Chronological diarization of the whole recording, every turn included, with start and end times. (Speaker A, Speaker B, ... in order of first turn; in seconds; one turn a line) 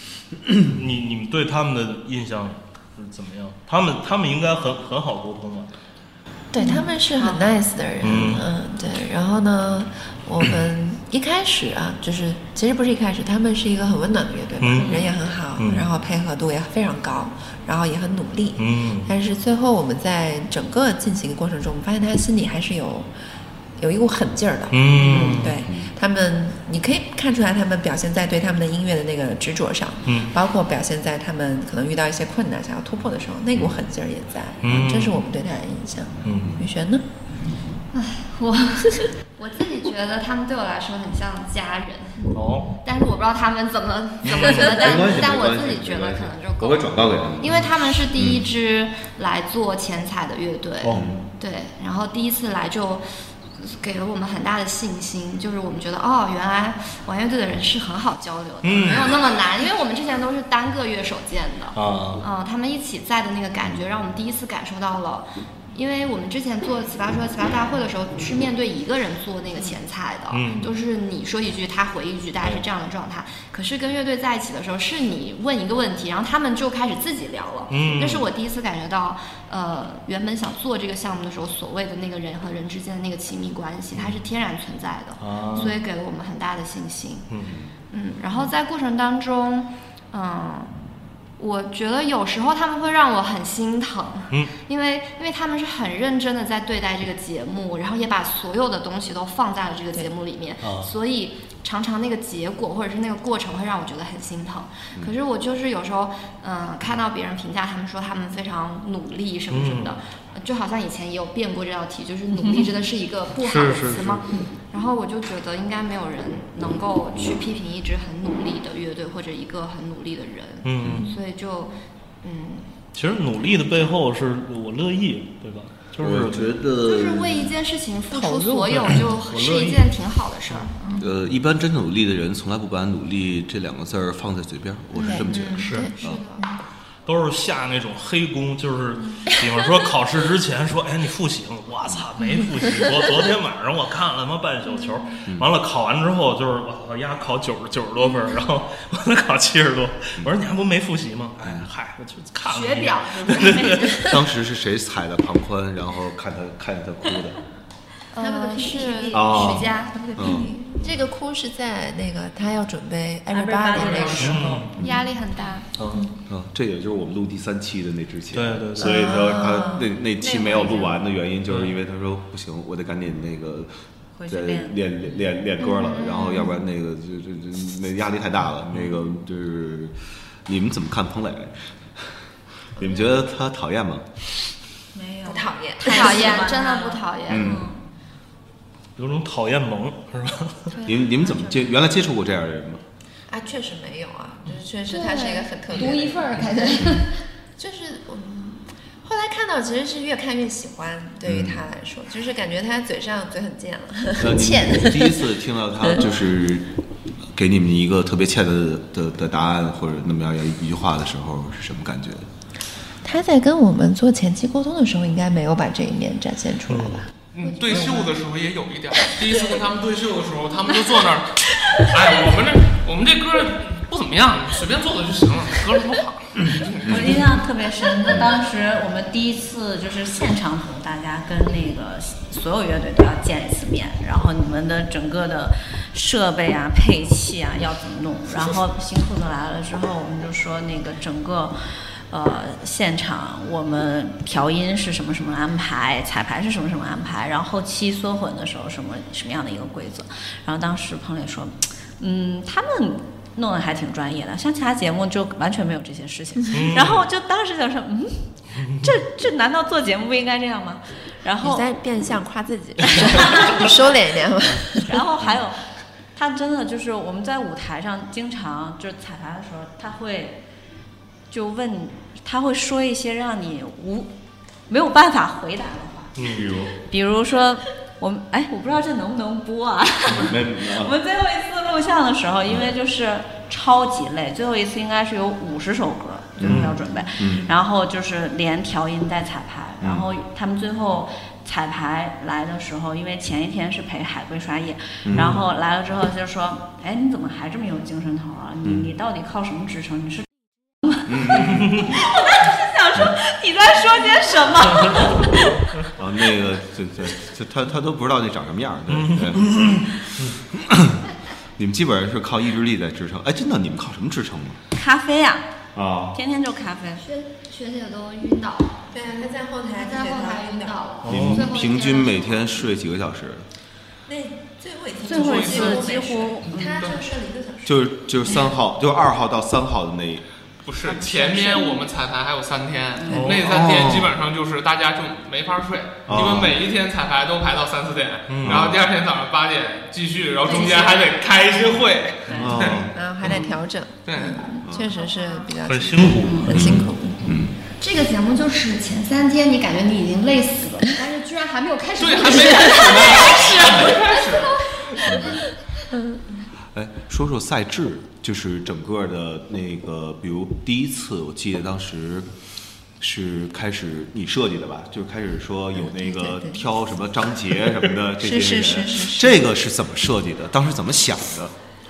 Speaker A: 0.3-0.7
Speaker B: 0.6-5.7
Speaker C: 6.5-23.1
Speaker D: 7.2-7.6
Speaker B: 8.0-8.5
Speaker B: 14.6-15.0
Speaker D: 14.8-15.1
Speaker B: 15.6-15.9
Speaker B: 18.6-19.1
Speaker C: 23.8-37.0
Speaker B: 24.7-25.6
Speaker A: 25.6-25.9
Speaker B: 30.1-30.3
Speaker B: 34.6-35.2
Speaker B: 36.2-36.6
Speaker D: 37.9-42.3
Speaker B: 42.3-42.7
Speaker D: 42.8-53.0
Speaker B: 44.2-44.8
Speaker A: 44.6-48.4
Speaker B: 50.8-51.2
Speaker A: 50.9-51.2
Speaker D: 53.5-87.3
Speaker B: 58.6-59.1
Speaker B: 61.7-62.2
Speaker B: 70.3-70.7
Speaker B: 77.7-78.2
Speaker B: 85.2-85.8
Speaker B: 87.3-87.6
Speaker D: 87.9-90.7
Speaker D: 91.4-122.7
Speaker B: 100.6-100.9
Speaker B: 109.5-109.9
Speaker B: 113.4-114.4
Speaker B: 120.6-121.1
Speaker A: 120.8-121.0
Speaker B: 122.9-126.5
Speaker A: 126.0-127.5
Speaker D: 126.8-131.1
Speaker B: 128.2-129.9
Speaker A: 130.9-136.2
Speaker C: 134.9-136.6
Speaker D: 135.1-136.5
Speaker B: 135.5-135.9
Speaker B: 137.1-154.1
Speaker A: 151.4-151.7
Speaker D: 152.4-154.0
Speaker A: 153.8-157.4
Speaker D: 158.1-160.0
Speaker C: 158.2-164.5
Speaker A: 159.1-160.5
Speaker E: 163.3-164.8
Speaker B: 164.1-164.7
Speaker D: 164.7-165.7
Speaker A: 164.8-165.0
Speaker B: 165.8-166.1
Speaker A: 166.3-173.7
Speaker B: 168.3-168.9
Speaker C: 168.8-169.9
Speaker E: 169.4-171.0
Speaker B: 171.5-171.7
Speaker E: 174.2-174.8
Speaker A: 174.3-182.1
Speaker D: 175.7-176.5
Speaker A: 182.7-184.3
Speaker E: 184.9-187.8
Speaker C: 185.2-186.5
Speaker D: 185.8-187.6
Speaker A: 187.3-187.7
Speaker B: 189.0-190.8
Speaker D: 190.7-191.2
Speaker A: 190.8-192.8
Speaker C: 193.3-197.0
Speaker D: 194.9-197.2
Speaker C: 197.6-205.4
Speaker A: 201.2-201.6
Speaker A: 204.2-212.3
Speaker C: 213.0-217.1
Speaker B: 216.7-217.0
Speaker F: 217.3-227.1
Speaker C: 217.6-218.1
Speaker A: 226.4-227.2
Speaker E: 226.8-261.7
Speaker B: 256.5-257.1
Speaker B: 258.6-258.9
Speaker C: 261.4-265.0
Speaker E: 263.0-263.6
Speaker E: 264.7-265.6
Speaker E: 266.1-270.4
Speaker E: 271.3-274.1
Speaker E: 274.7-300.2
Speaker B: 276.1-276.7
Speaker A: 276.4-276.7
Speaker A: 280.1-280.9
Speaker A: 286.4-287.5
Speaker B: 286.4-286.8
Speaker A: 289.8-290.1
Speaker A: 295.0-295.4
Speaker B: 295.1-295.4
Speaker A: 298.6-298.9
Speaker A: 301.1-301.9
Speaker E: 301.9-305.6
Speaker B: 304.7-305.8
Speaker A: 305.9-314.6
Speaker B: 308.9-310.4
Speaker E: 314.7-315.5
Speaker A: 315.7-316.2
Speaker E: 316.1-317.0
Speaker D: 317.0-318.9
Speaker C: 318.9-320.8
Speaker D: 319.5-322.7
Speaker B: 321.0-321.5
Speaker A: 321.1-323.4
Speaker C: 324.1-327.9
Speaker E: 325.0-327.0
Speaker F: 325.2-325.9
Speaker A: 327.6-330.2
Speaker F: 330.6-342.8
Speaker E: 331.0-331.9
Speaker E: 333.0-333.4
Speaker B: 333.1-333.6
Speaker A: 333.4-334.1
Speaker A: 336.1-336.6
Speaker B: 338.3-338.7
Speaker A: 338.4-338.9
Speaker E: 340.6-340.9
Speaker A: 342.3-343.5
Speaker C: 342.9-347.4
Speaker F: 344.1-344.4
Speaker A: 344.6-344.9
Speaker D: 345.0-345.4
Speaker B: 345.6-346.9
Speaker A: 346.5-347.6
Speaker D: 347.8-355.1
Speaker F: 352.0-355.0
Speaker E: 352.7-353.5
Speaker A: 355.0-355.4
Speaker A: 356.7-362.3
Speaker A: 363.0-371.5
Speaker C: 365.7-366.8
Speaker C: 368.2-369.4